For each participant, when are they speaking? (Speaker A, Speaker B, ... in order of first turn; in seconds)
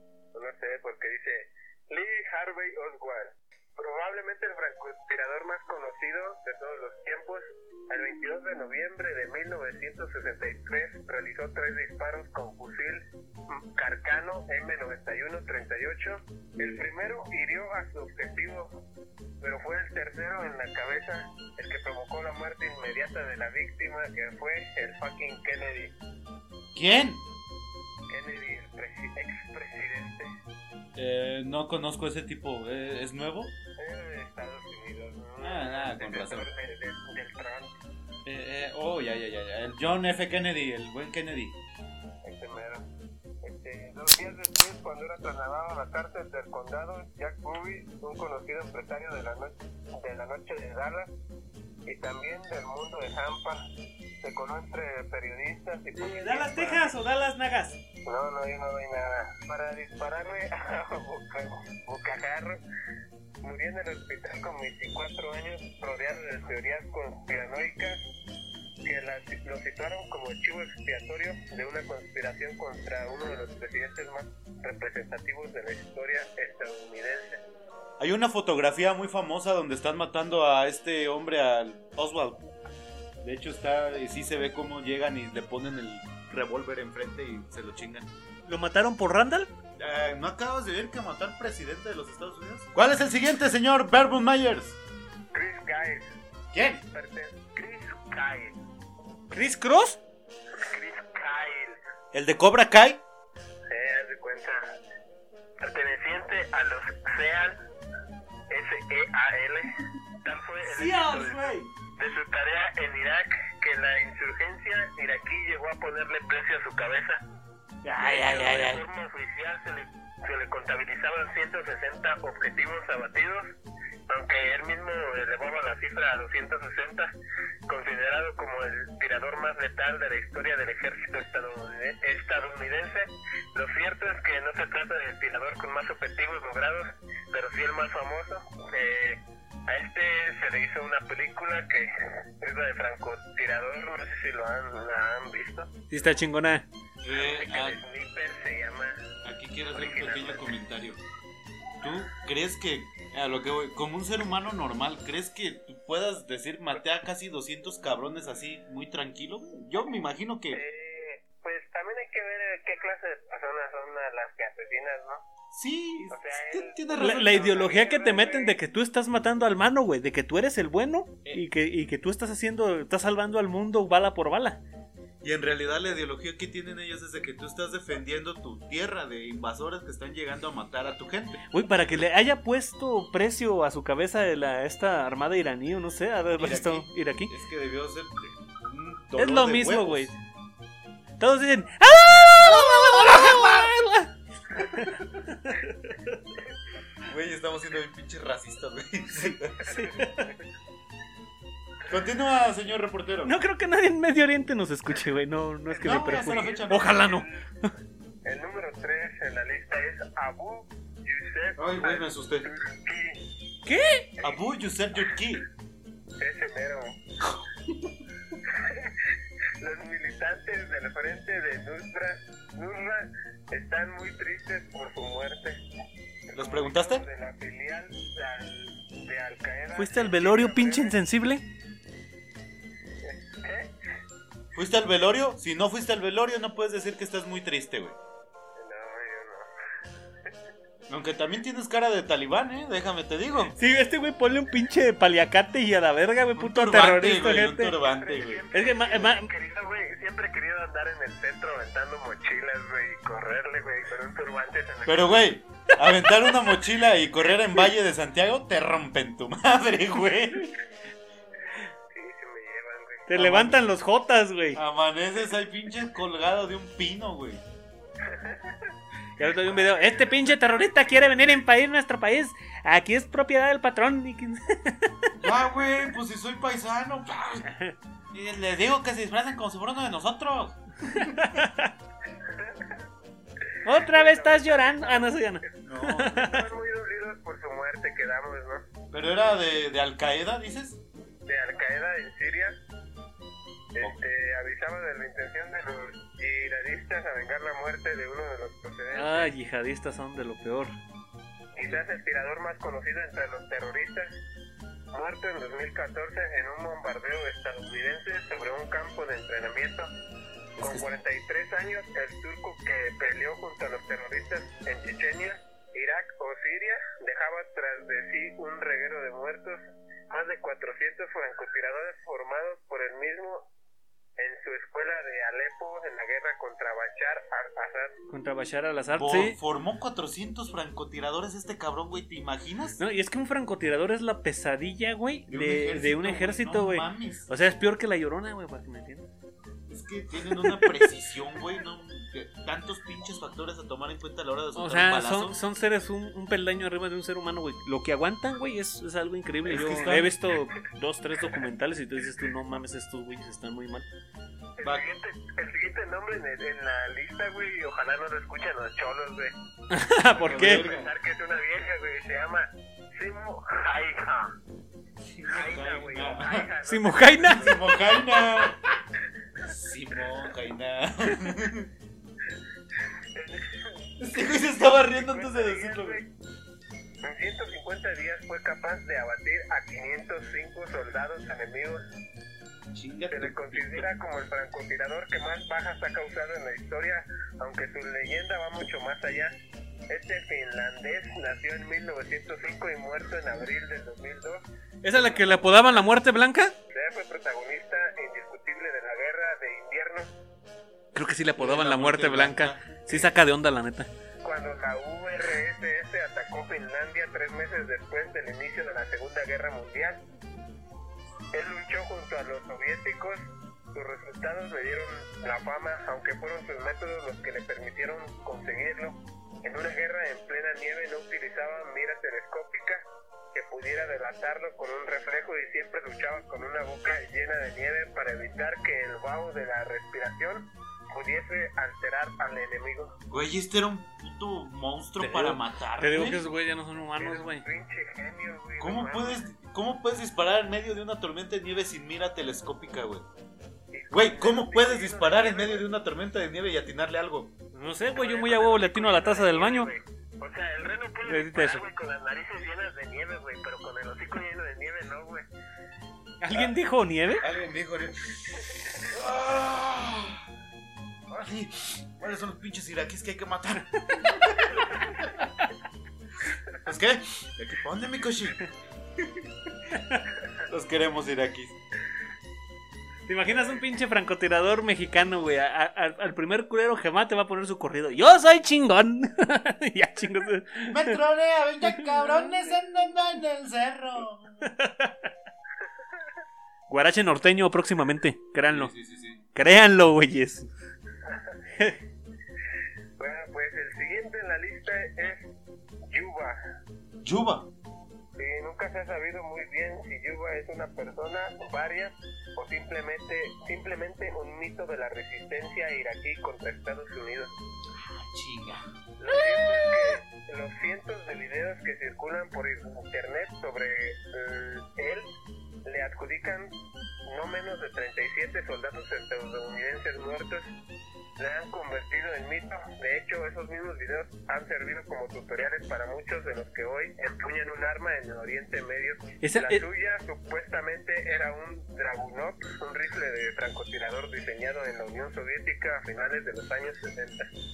Speaker A: 0.3-18.8, 19.4-25.9, 28.1-30.3, 33.8-37.7, 42.2-42.8, 43.4-51.1, 51.9-53.6, 54.2-56.9, 58.1-62.6, 63.4-68.0, 68.8-77.4, 95.3-96.1, 96.9-98.6, 100.5-101.8, 103.7-104.7, 105.6-107.6, 108.5-117.2, 118.0-123.4, 124.1-127.1, 127.7-145.7, 147.2-149.0, 149.7-150.5, 160.5-165.2, 166.1-168.6, 199.6-200.4, 205.8-207.4, 208.2-213.2, 216.2-217.0, 218.5-218.9, 219.6-225.6, 226.3-231.0, 233.0-233.7, 238.6-239.5, 247.8-255.2, 261.9-263.1, 268.0-268.7, 282.3-282.7, 283.6-288.6, 291.3-292.6, 293.8-299.3, 301.5-304.1, 304.9-309.9, 310.6-323.5, 324.2-328.0, 354.6-359.4, 360.1-364.3, 365.3-367.7, 373.1-373.8, 375.0-376.1, 377.0-381.8, 383.1-389.3, 389.9-395.7, 396.7-400.1, 404.2-410.0, 411.3-433.0, 437.0-439.2, 443.7-445.7, 447.8-455.3, 493.0-495.3, 495.9-496.4, 498.2-507.3, 509.0-515.1, 515.6-516.5, 517.1-520.5, 521.2-537.3
Speaker B: 26.8-27.2, 31.0-33.5, 35.4-36.5, 38.3-41.5, 78.0-82.5, 83.2-88.1, 89.8-94.8, 96.5-96.8, 102.1-103.0, 147.0-147.8, 149.2-151.0, 151.8-160.6, 165.5-167.5, 175.2-181.5, 186.4-190.2, 192.5-193.7, 197.0-199.7, 201.9-203.3, 205.8-207.0, 211.6-212.5, 214.2-215.4, 226.3-227.1, 234.6-238.0, 240.9-243.6, 246.4-248.4, 254.9-260.6, 263.1-263.6, 264.6-267.4, 275.2-277.5, 278.1-281.2, 285.6-286.3, 288.9-290.8, 310.6-310.9, 329.0-332.8, 335.3-337.3, 339.7-345.4, 349.5-350.2, 360.2-360.9, 365.1-366.5, 367.2-368.6, 369.4-371.7, 374.0-376.0, 382.7-383.9, 401.4-403.1, 433.1-436.2, 438.6-443.1, 443.9-447.3, 457.2-460.2, 461.1-465.1, 466.6-468.4, 469.0-469.3, 470.5-471.6, 480.7-484.5, 488.5-489.2, 497.0-497.5, 507.8-508.6
Speaker C: 56.0-57.8, 88.5-89.5, 99.3-100.0, 110.6-111.7, 117.8-118.8, 145.9-146.7, 167.0-174.6, 181.5-187.3, 189.2-190.1, 191.2-196.2, 199.7-200.3, 203.2-207.7, 213.7-214.1, 229.8-231.4, 243.6-247.8, 248.5-249.3, 255.9-256.3, 263.1-264.6, 269.2-275.1, 277.5-277.8, 280.8-281.7, 283.6-286.5, 298.9-300.7, 328.1-329.4, 332.8-339.1, 340.3-340.9, 344.6-353.9, 359.7-360.7, 366.6-367.6, 394.8-396.5, 400.9-403.9, 435.0-437.5, 447.5-449.7, 451.1-451.6, 456.2-457.3, 469.7-470.1, 473.1-481.0, 481.7-482.3, 484.4-485.1, 486.7-488.7, 489.4-490.5, 529.2-529.6